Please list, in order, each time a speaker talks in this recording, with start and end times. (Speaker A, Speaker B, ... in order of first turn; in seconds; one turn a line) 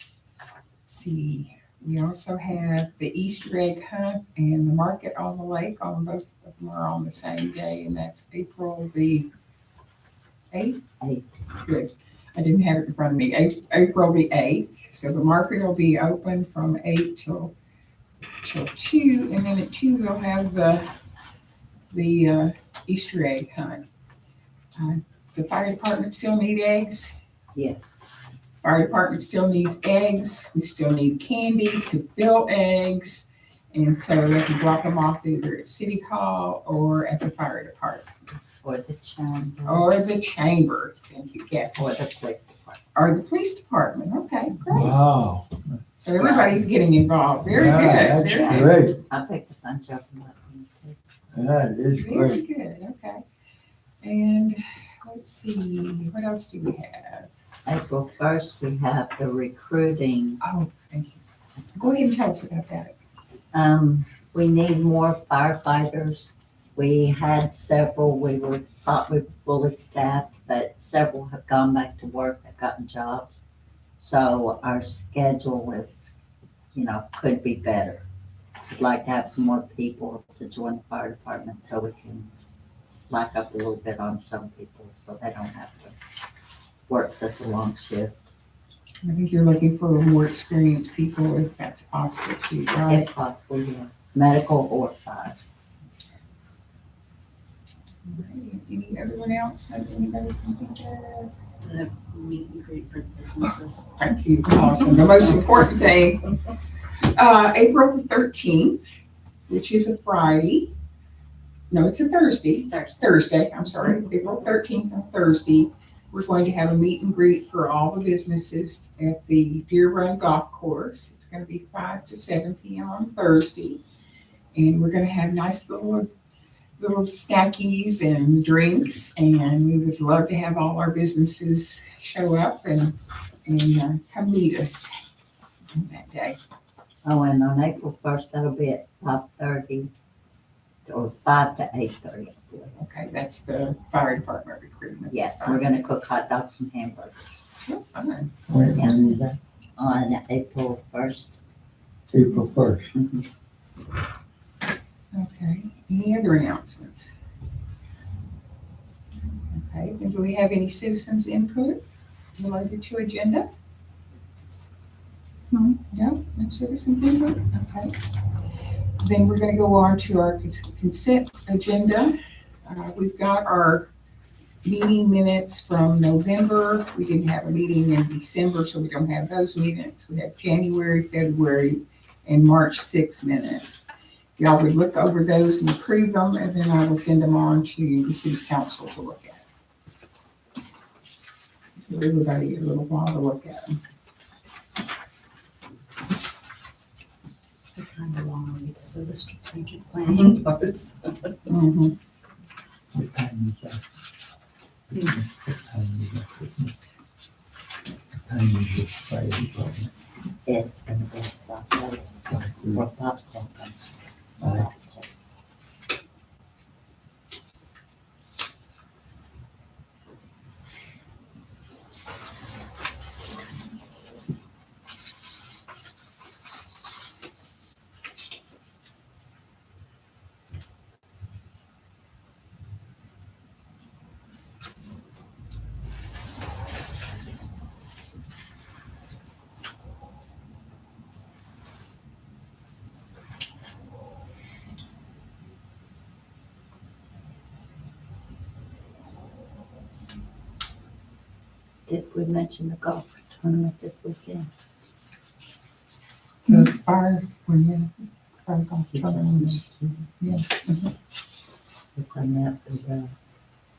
Speaker A: 0.8-9.3
Speaker A: 10.5-10.8
Speaker A: 11.7-17.5
Speaker A: 18.4-20.9
Speaker A: 21.9-23.9
Speaker A: 24.8-27.1
Speaker B: 27.6-27.8
Speaker A: 28.6-38.1
Speaker B: 38.3-39.9
Speaker A: 39.7-41.9
Speaker B: 41.8-42.8
Speaker A: 43.0-45.0
Speaker C: 44.7-45.8
Speaker A: 46.0-48.7
Speaker B: 46.2-46.6
Speaker C: 47.5-49.0
Speaker B: 47.7-51.4
Speaker C: 51.3-52.4
Speaker A: 52.0-53.2
Speaker A: 54.0-57.3
Speaker B: 57.7-60.4
Speaker A: 60.4-61.2
Speaker A: 61.8-62.9
Speaker B: 63.5-73.4
Speaker B: 74.0-76.2
Speaker B: 76.7-78.0
Speaker B: 78.7-82.3
Speaker B: 82.9-86.0
Speaker B: 86.9-88.2
Speaker A: 89.0-93.1
Speaker B: 92.9-95.4
Speaker A: 98.0-101.3
Speaker D: 101.6-103.9
Speaker A: 104.0-106.3
Speaker A: 107.2-110.7
Speaker A: 111.7-123.8
Speaker D: 112.7-113.0
Speaker A: 124.5-126.1
Speaker A: 126.8-134.9
Speaker A: 135.8-136.4
Speaker B: 137.0-139.9
Speaker B: 140.9-142.8
Speaker A: 142.8-145.6
Speaker B: 145.1-147.4
Speaker A: 147.7-148.3
Speaker C: 148.5-149.4
Speaker B: 148.7-149.2
Speaker B: 149.8-151.4
Speaker C: 152.1-152.9
Speaker B: 152.9-153.3
Speaker A: 155.1-157.1
Speaker A: 159.5-161.8
Speaker A: 162.4-163.5
Speaker A: 165.8-167.9
Speaker A: 169.0-173.9
Speaker A: 174.6-183.8
Speaker A: 184.4-189.4
Speaker A: 191.8-193.8
Speaker D: 197.8-201.5
Speaker A: 201.5-201.9
Speaker C: 202.9-203.8
Speaker C: 204.9-206.7
Speaker C: 208.2-209.9
Speaker B: 210.5-215.1
Speaker C: 212.3-212.8
Speaker C: 214.4-214.7
Speaker B: 251.9-254.5
Speaker A: 256.5-257.9
Speaker A: 258.5-259.7
Speaker B: 258.9-260.4
Speaker A: 260.2-260.9
Speaker B: 261.9-263.1